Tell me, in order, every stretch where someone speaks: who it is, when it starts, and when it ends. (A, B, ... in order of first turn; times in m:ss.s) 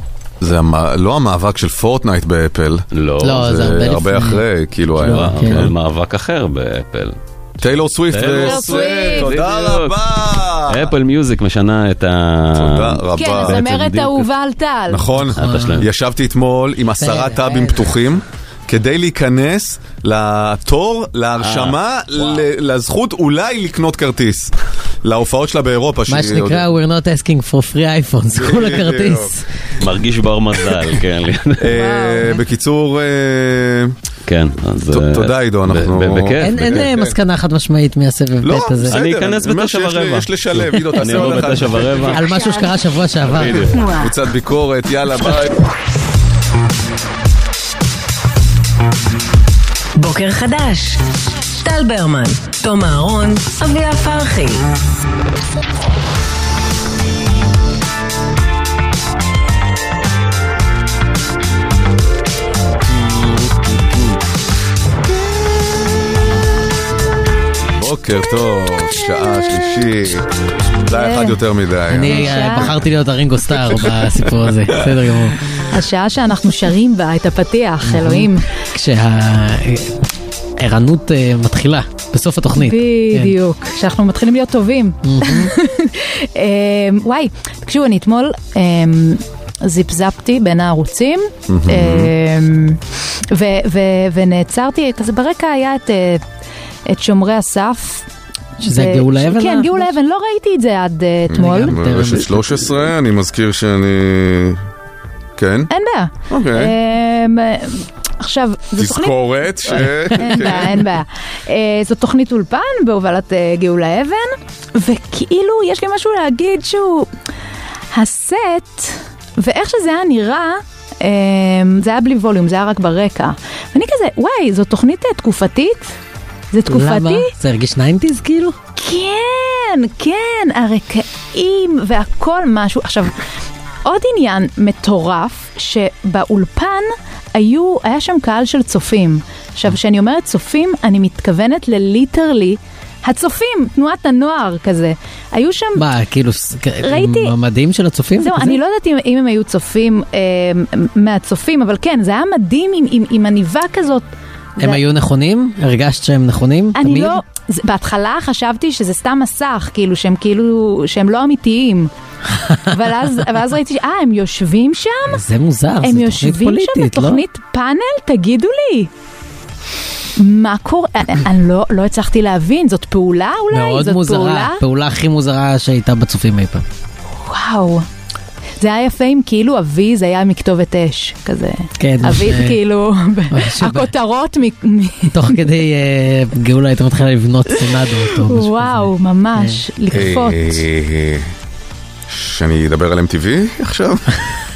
0:00.4-0:05.7 A
0:02.9-0:03.5 B
0:03.2-0:04.4 C
0:05.0-0:05.7 C
0:05.0-0:10.0 B
0:07.6-0:10.9 A
0:08.3-0:09.3 D
0:10.7-0:13.8 B
0:12.5-0:14.2 A
0:13.2-0:15.0 D
0:14.9-0:26.7 A
0:15.4-0:15.9 B
0:15.4-0:15.9 C
0:17.0-0:17.9 C
0:21.4-0:22.5 B
0:26.1-0:29.4 C
0:28.3-0:29.4 A
0:29.8-0:31.8 B
0:31.6-0:33.9 A
0:31.7-0:32.4 D
0:34.2-0:36.8 B
0:34.9-0:37.2 A
0:36.4-0:39.0 C
0:38.4-0:42.3 A
0:38.8-0:40.3 B
0:40.9-0:42.4 B
0:42.0-0:43.7 C
0:42.3-0:42.7 D
0:43.3-0:43.8 B
0:43.4-0:45.6 A
0:50.0-0:51.0 E
0:51.6-0:54.7 E
1:07.7-1:10.2 A
1:10.8-1:12.7 A
1:10.9-1:11.4 D
1:11.9-1:15.4 C
1:12.0-1:12.8 D
1:13.6-1:14.0 A
1:15.7-1:18.4 D
1:17.9-1:20.0 C
1:20.6-1:23.3 C
1:22.6-1:36.2 D
1:25.0-1:25.5 C
1:31.5-1:32.1 A
1:36.9-1:38.0 D
1:38.6-1:39.9 C
1:38.6-1:41.7 D
1:41.3-1:44.6 A
1:41.3-1:42.6 C
1:45.4-1:45.7 A
1:45.7-1:57.1 D
1:46.3-1:46.7 A
1:48.8-1:50.9 A
1:57.9-2:05.9 D
2:06.5-2:07.3 D
2:06.6-2:08.6 C
2:08.8-2:13.2 D
2:13.8-2:25.9 D
2:25.8-2:28.6 C
2:26.8-2:27.3 D
2:28.2-2:34.1 D
2:34.6-2:37.2 C
2:36.7-2:41.9 D
2:42.4-2:42.7 C
2:42.7-2:45.2 D
2:45.1-2:47.2 C
2:45.8-2:48.9 D
2:50.2-2:54.6 D
2:53.5-2:56.6 C
2:57.2-2:57.8 D
2:58.6-3:05.4 D
3:01.8-3:02.6 C
3:03.3-3:03.9 C
3:05.1-3:09.6 C
3:08.2-3:10.6 D
3:09.9-3:11.3 A
3:12.1-3:14.3 A